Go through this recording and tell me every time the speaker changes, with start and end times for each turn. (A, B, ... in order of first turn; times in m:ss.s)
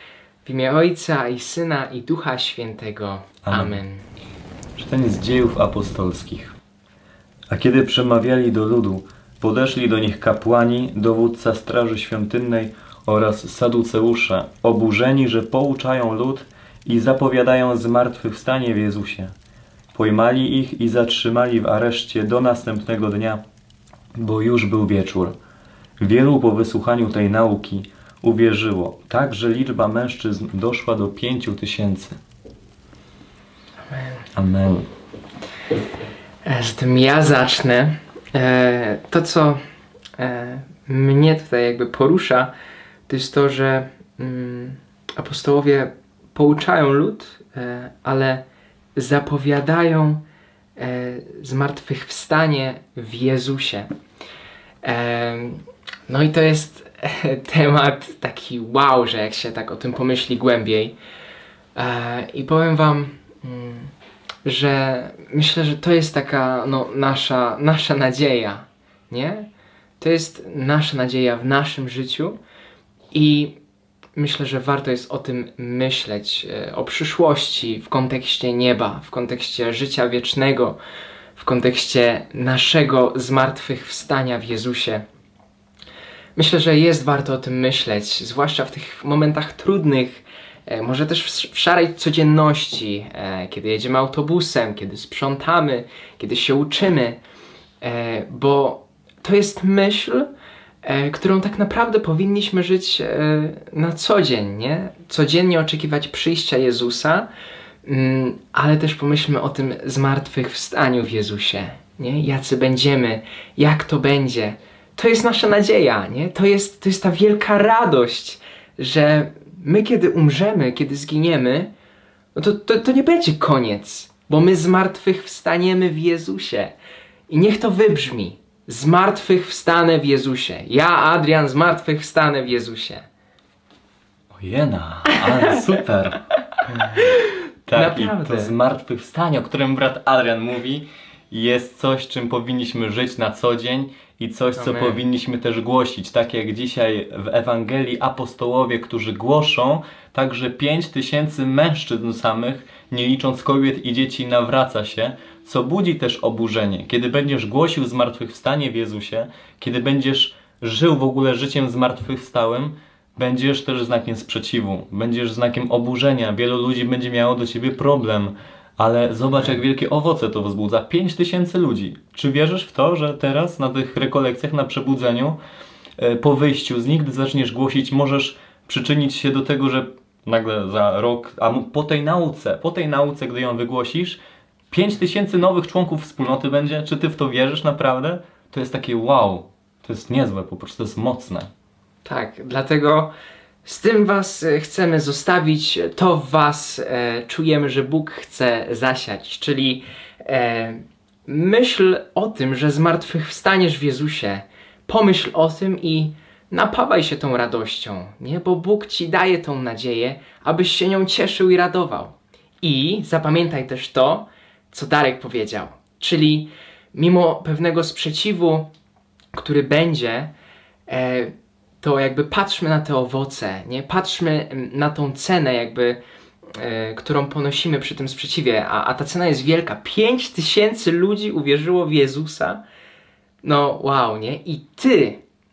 0:00.4-0:04.1 A
0:03.4-0:03.8 B
0:04.8-0:06.6 B
0:07.5-0:19.3 B
0:19.9-0:23.4 B
0:24.2-0:25.3 B
0:26.0-0:32.2 B
0:33.9-0:34.3 A
0:34.4-0:34.9 B
0:36.4-0:39.6 A
0:40.2-0:42.5 A
0:43.1-0:48.4 A
0:49.0-0:50.2 A
0:50.8-0:53.9 A
0:54.8-1:01.0 A
1:01.8-1:03.9 A
1:04.4-1:09.5 A
1:10.0-1:12.4 A
1:13.1-1:13.6 A
1:14.2-1:20.8 A
1:21.4-1:25.0 A
1:26.4-1:37.2 A
1:37.8-1:40.3 A
1:40.8-1:47.3 A
1:47.8-2:01.7 A
2:02.4-2:06.7 A
2:07.3-2:13.1 A
2:14.3-2:16.2 B
2:15.1-2:15.6 A
2:17.0-2:18.6 A
2:17.7-2:55.4 B
2:24.6-2:25.0 A
2:49.3-2:49.6 A
2:56.0-3:04.2 B
3:04.7-3:11.5 B
3:12.0-3:13.1 A
3:13.6-3:38.7 A
3:39.3-3:40.3 A
3:40.9-3:52.6 A
3:53.4-3:55.2 A